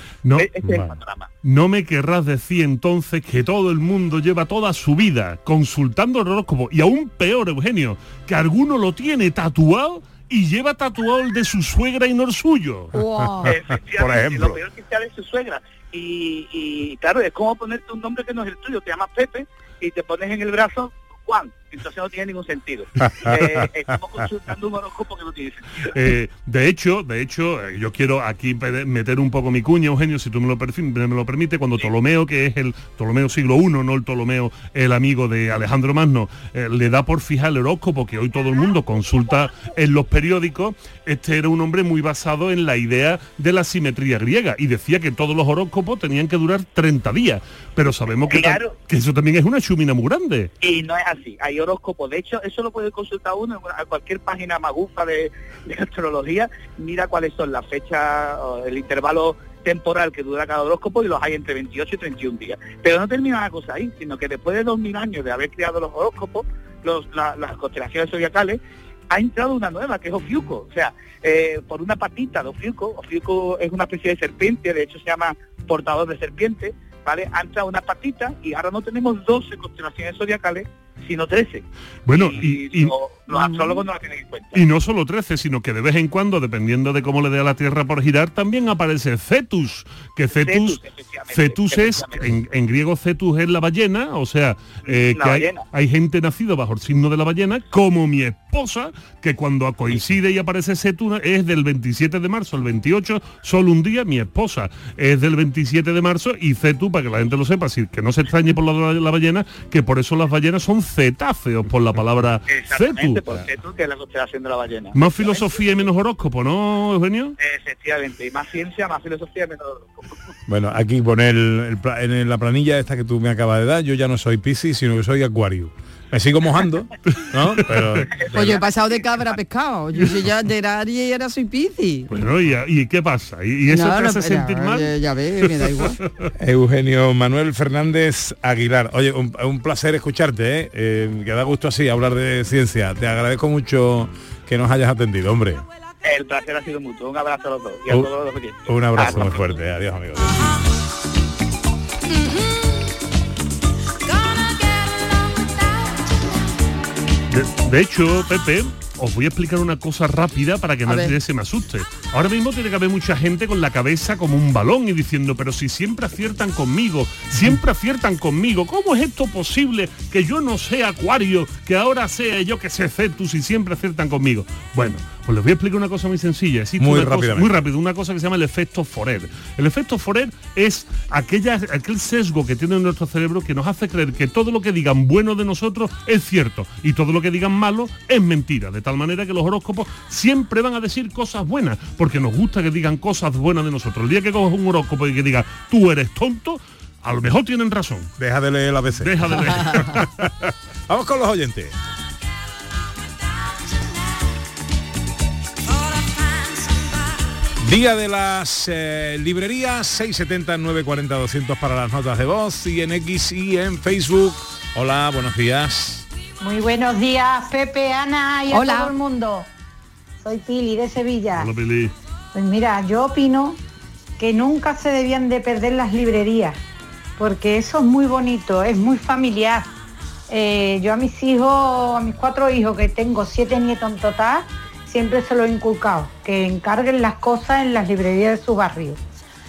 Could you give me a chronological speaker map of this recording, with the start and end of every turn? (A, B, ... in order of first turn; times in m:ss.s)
0:00.2-0:00.5 A
0:00.4-0:01.3 B
0:01.4-0:12.9 A
0:12.9-0:13.5 C
0:13.4-0:14.6 D
0:13.4-0:25.9 B
0:23.1-0:23.7 D
0:25.9-0:50.5 A
0:48.3-0:48.7 B
0:50.6-1:08.6 B
1:09.1-1:24.6 B
1:22.1-1:22.9 A
1:24.5-1:30.8 A
1:30.3-1:32.3 B
1:31.3-1:53.2 A
1:34.9-1:35.6 B
1:52.5-1:55.9 B
1:54.9-1:57.4 A
1:57.4-2:00.1 B
2:00.5-2:08.6 D
2:08.1-2:09.4 B
2:08.3-2:12.1 C
2:12.1-2:14.9 A
2:13.7-2:16.0 C
2:15.6-2:15.9 A
2:16.4-2:25.6 D
2:26.0-2:29.6 B
2:28.7-2:30.4 D
2:37.3-3:18.1 A
2:40.9-2:41.1 C
2:56.8-2:57.6 D
3:18.2-3:21.7 D
3:19.0-3:20.1 A
3:27.6-3:36.1 D
3:36.4-3:39.5 E
3:38.5-3:38.9 C
3:40.2-3:41.5 E
3:41.3-3:41.9 A
3:42.3-3:43.6 E
3:44.2-3:46.6 E
3:47.2-3:49.7 E
3:50.3-3:59.0 E